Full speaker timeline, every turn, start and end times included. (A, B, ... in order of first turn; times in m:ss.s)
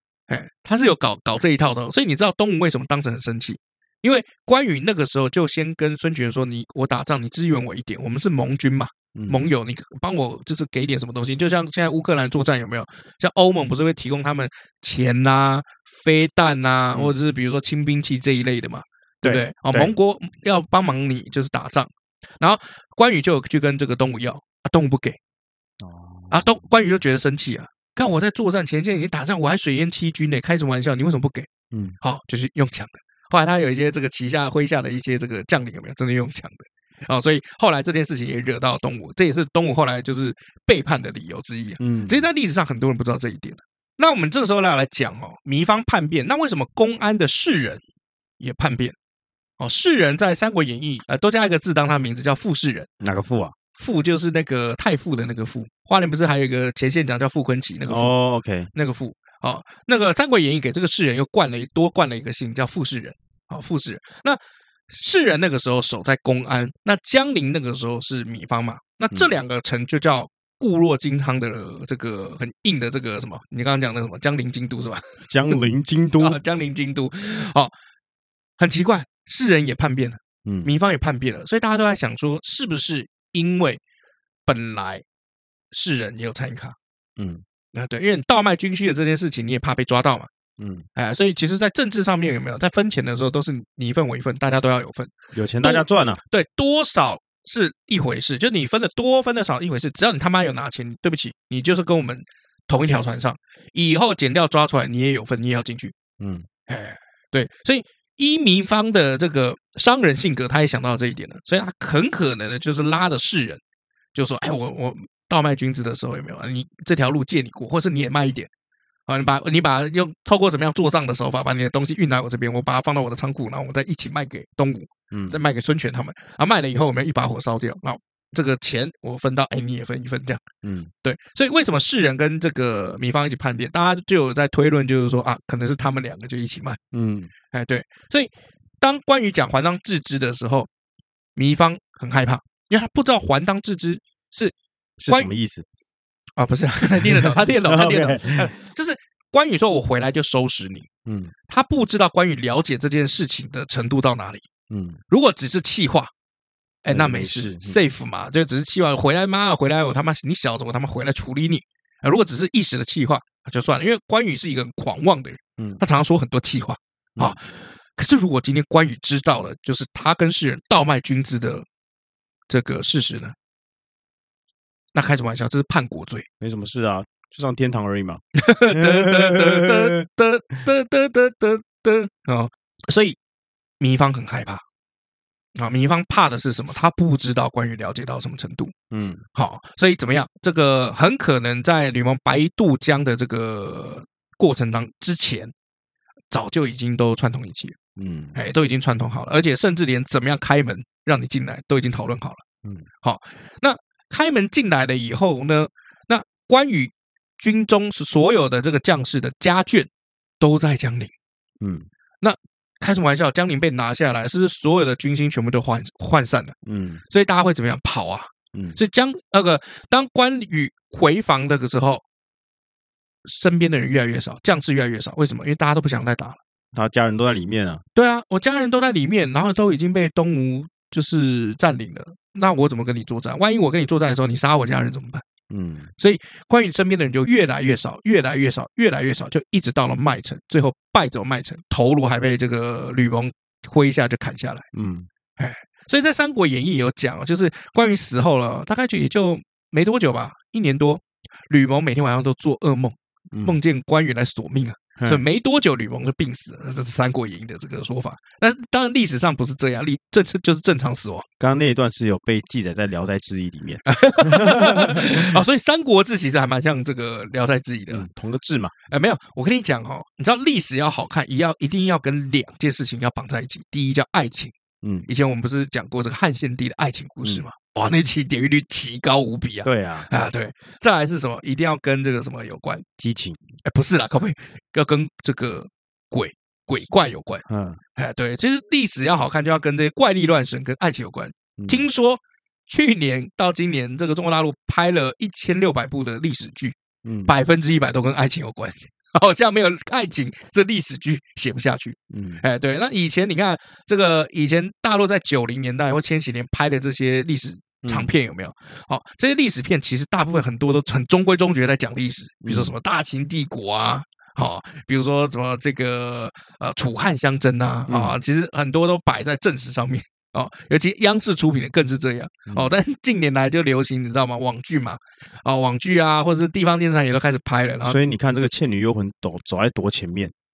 0:00.3-0:25.2 A
0:09.1-0:09.5 B
0:19.2-0:19.9 B
0:25.8-0:26.7 B
0:26.3-0:47.8 A
0:31.7-0:32.0 B
0:41.8-0:42.2 B
0:48.4-0:49.0 A
0:49.6-0:52.9 A
0:53.0-0:53.5 B
0:53.8-0:58.1 A
0:57.9-0:58.7 B
0:58.7-1:04.4 A
1:04.9-1:15.6 A
1:15.3-1:16.4 B
1:16.2-1:17.7 A
1:18.6-1:23.8 A
1:20.4-1:20.7 B
1:24.4-1:25.0 A
1:25.7-1:26.8 A
1:27.2-1:27.4 B
1:27.7-1:30.3 A
1:30.6-1:30.8 B
1:31.0-1:45.9 A
1:35.3-1:36.2 B
1:46.2-1:46.4 B
1:46.7-1:53.6 A
1:54.1-1:58.5 A
1:59.1-2:10.4 A
2:05.1-2:05.4 B
2:10.6-2:10.9 B
2:11.0-2:16.8 A
2:16.9-2:17.3 B
2:17.5-2:20.7 A
2:21.4-2:24.5 A
2:25.0-2:25.6 B
2:26.4-2:30.9 A
2:27.0-2:28.5 B
2:31.0-2:31.3 B
2:31.5-2:34.5 A
2:34.7-2:35.0 B
2:35.1-2:36.1 A
2:36.8-2:51.6 A
2:36.9-2:37.8 B
2:52.5-2:53.3 A
2:54.9-2:56.2 A
2:56.4-3:00.0 B
2:58.4-3:03.2 A
3:03.8-3:04.6 A
3:05.6-3:08.7 A
3:08.9-3:09.2 B
3:09.3-3:15.5 A
3:16.3-3:17.8 A
3:18.0-3:18.4 B
3:18.3-3:22.4 A
3:23.0-3:29.9 A
3:30.4-3:31.1 A
3:31.6-3:31.9 B
3:32.2-3:36.5 A
3:36.6-3:37.0 B
3:37.1-3:42.0 A
3:43.2-3:46.4 A
3:46.7-3:47.8 B
3:47.9-3:55.2 A
3:55.5-3:55.9 B
3:56.0-4:04.7 A
4:04.7-4:05.1 B
4:05.4-4:21.3 A
4:13.3-4:13.6 B
4:15.0-4:15.2 B
4:21.4-4:25.4 B
4:23.9-4:28.1 A
4:27.9-4:28.7 B
4:28.9-4:34.5 A
4:34.8-4:35.1 B
4:35.1-4:42.9 A
4:39.6-4:40.1 B
4:43.0-4:43.4 B
4:43.6-4:47.4 A
4:47.4-4:47.8 B
4:48.0-5:28.0 A
4:51.6-4:51.8 B
4:57.0-4:57.3 B
5:02.1-5:02.4 B
5:07.8-5:08.1 B
5:12.4-5:12.7 B
5:17.9-5:18.2 B
5:27.8-5:30.3 B